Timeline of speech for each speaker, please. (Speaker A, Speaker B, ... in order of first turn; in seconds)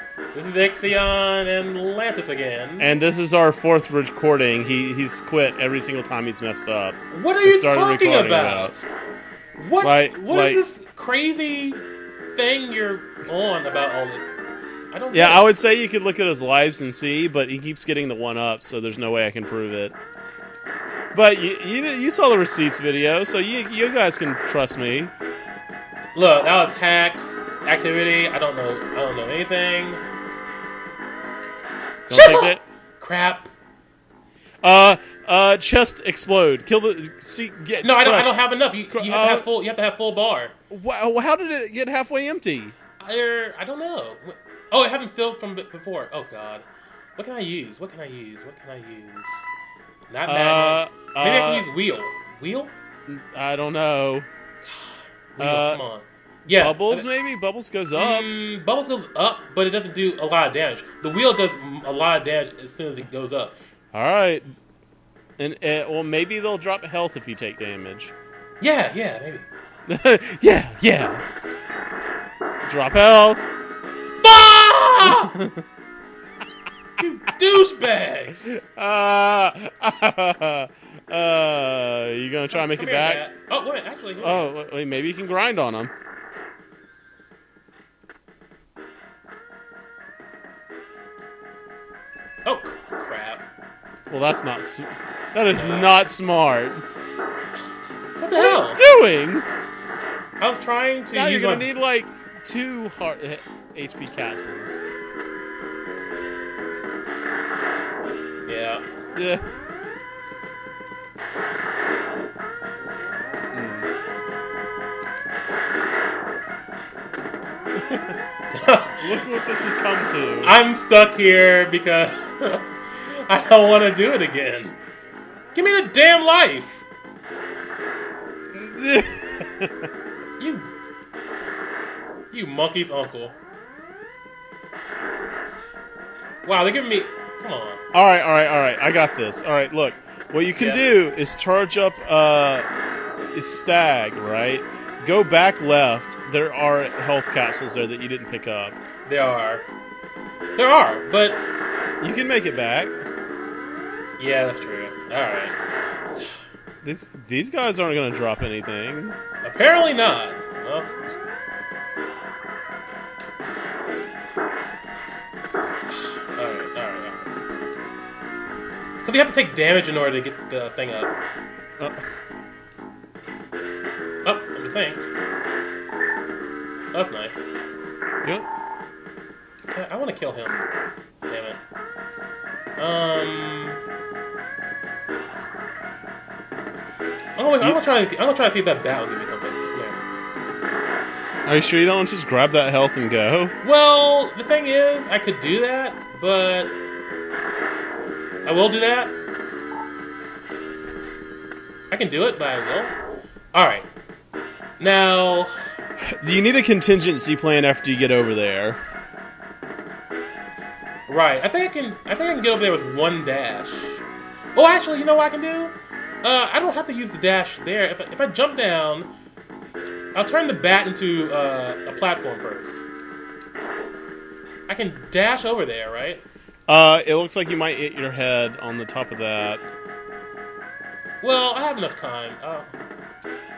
Speaker A: 0.3-2.9, 7.1-8.9, 9.6-11.8, 12.3-14.4, 14.9-15.5, 26.1-30.0, 32.1-33.5, 37.8-40.5, 43.0-46.6, 47.2-49.5, 50.1-52.7, 54.6-57.1, 57.9-63.6, 68.6-69.5, 74.2-75.3, 77.0-78.6, 82.5-84.5, 92.4-93.4, 95.5-95.9, 98.2-98.8, 100.4-101.7, 108.5-108.8, 118.5-119.2, 120.4-124.8, 125.5-126.8, 130.4-130.7, 132.3-133.3, 136.4-137.8, 140.6-140.9, 149.1-149.6, 150.6-151.4, 154.2-155.5, 159.4-161.0, 165.9-167.3, 169.0-171.1, 174.2-175.0, 176.9-177.4, 179.7-180.7, 181.3-181.6, 182.8-183.8, 187.4-190.0, 193.6-196.7, 198.4-199.1, 201.9-202.9, 203.5-203.9, 204.8-205.6, 211.1-214.0, 214.5-219.1, 220.1-222.8, 224.7-226.2, 231.2-232.7
Speaker B: 2.8-8.7, 9.8-10.6, 15.1-19.9, 21.1-25.1, 32.1-32.6, 34.6-39.5, 40.7-42.7, 50.2-51.6, 53.1-54.3, 55.4-55.8, 56.5-58.3, 63.9-64.5, 65.4-68.1, 69.8-71.2, 72.7-73.4, 75.0-75.6, 78.4-83.2, 84.2-85.9, 94.1-96.8, 98.3-99.5, 101.1-104.8, 109.1-109.4, 113.5-113.9, 117.8-118.1, 119.0-120.5, 128.5-129.9, 137.9-142.7, 143.3-148.8, 152.0-152.9, 156.8-159.2, 191.4-193.5, 206.0-208.8, 226.7-229.6